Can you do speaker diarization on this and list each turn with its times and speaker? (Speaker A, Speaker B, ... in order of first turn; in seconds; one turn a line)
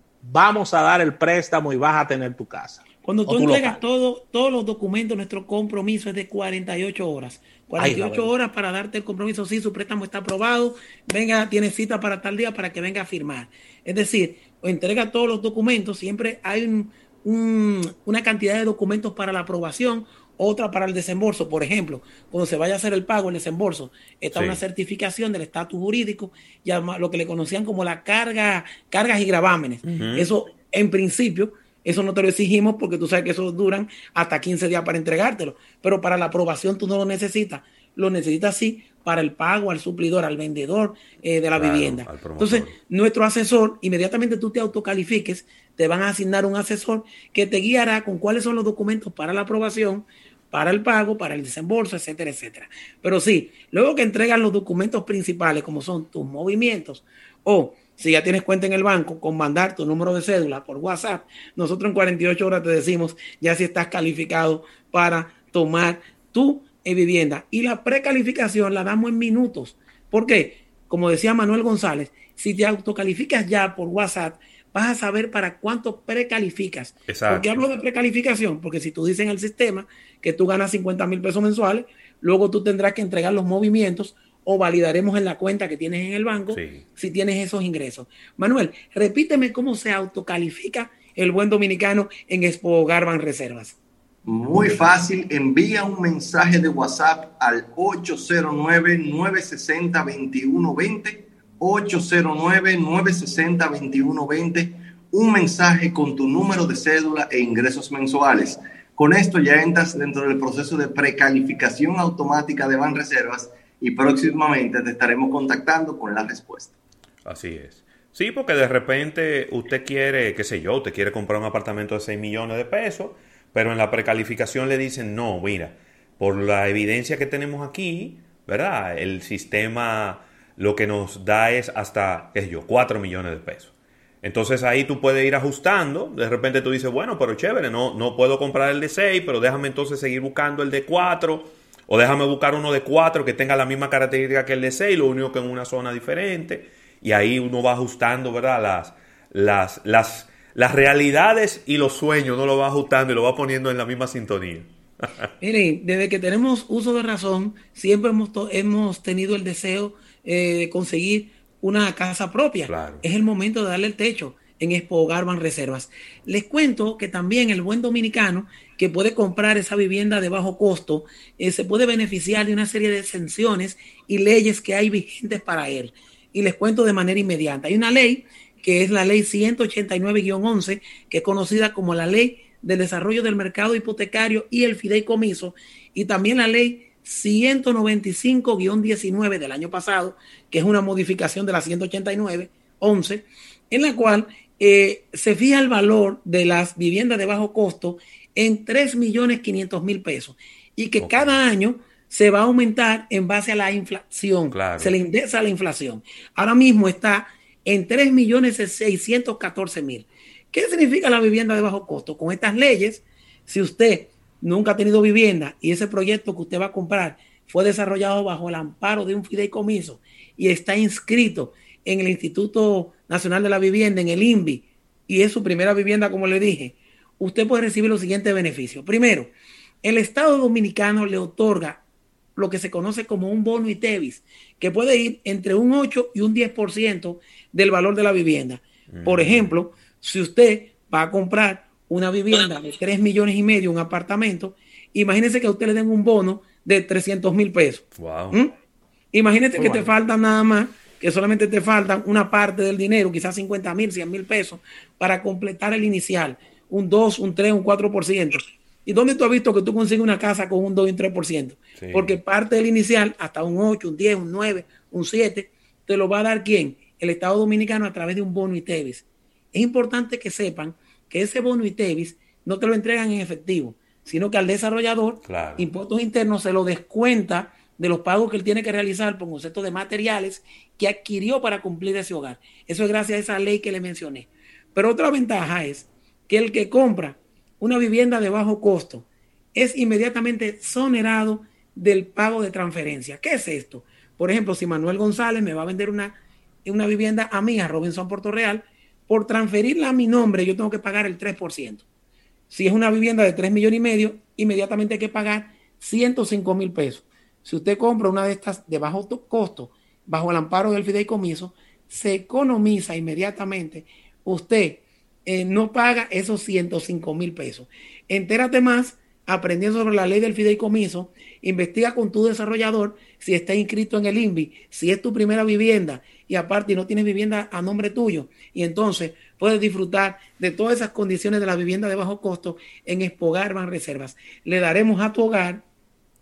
Speaker A: 0.2-3.8
Speaker B: 3.0-93.8
Speaker A: 7.8-8.3
Speaker C: 24.3-24.6
Speaker C: 29.9-30.3
Speaker C: 41.5-42.7
Speaker C: 77.1-77.6
Speaker C: 86.5-86.8
Speaker D: 94.2-116.7
Speaker C: 117.2-154.7
Speaker B: 155.4-229.3
Speaker C: 162.7-163.0
Speaker C: 201.0-201.4
Speaker C: 204.5-205.0
Speaker B: 229.8-231.8
Speaker B: 232.3-248.5
Speaker C: 238.9-239.5
Speaker C: 247.9-248.4
Speaker B: 249.1-301.8
Speaker C: 249.6-249.8
Speaker C: 261.8-262.2
Speaker C: 275.2-275.7
Speaker B: 302.5-335.6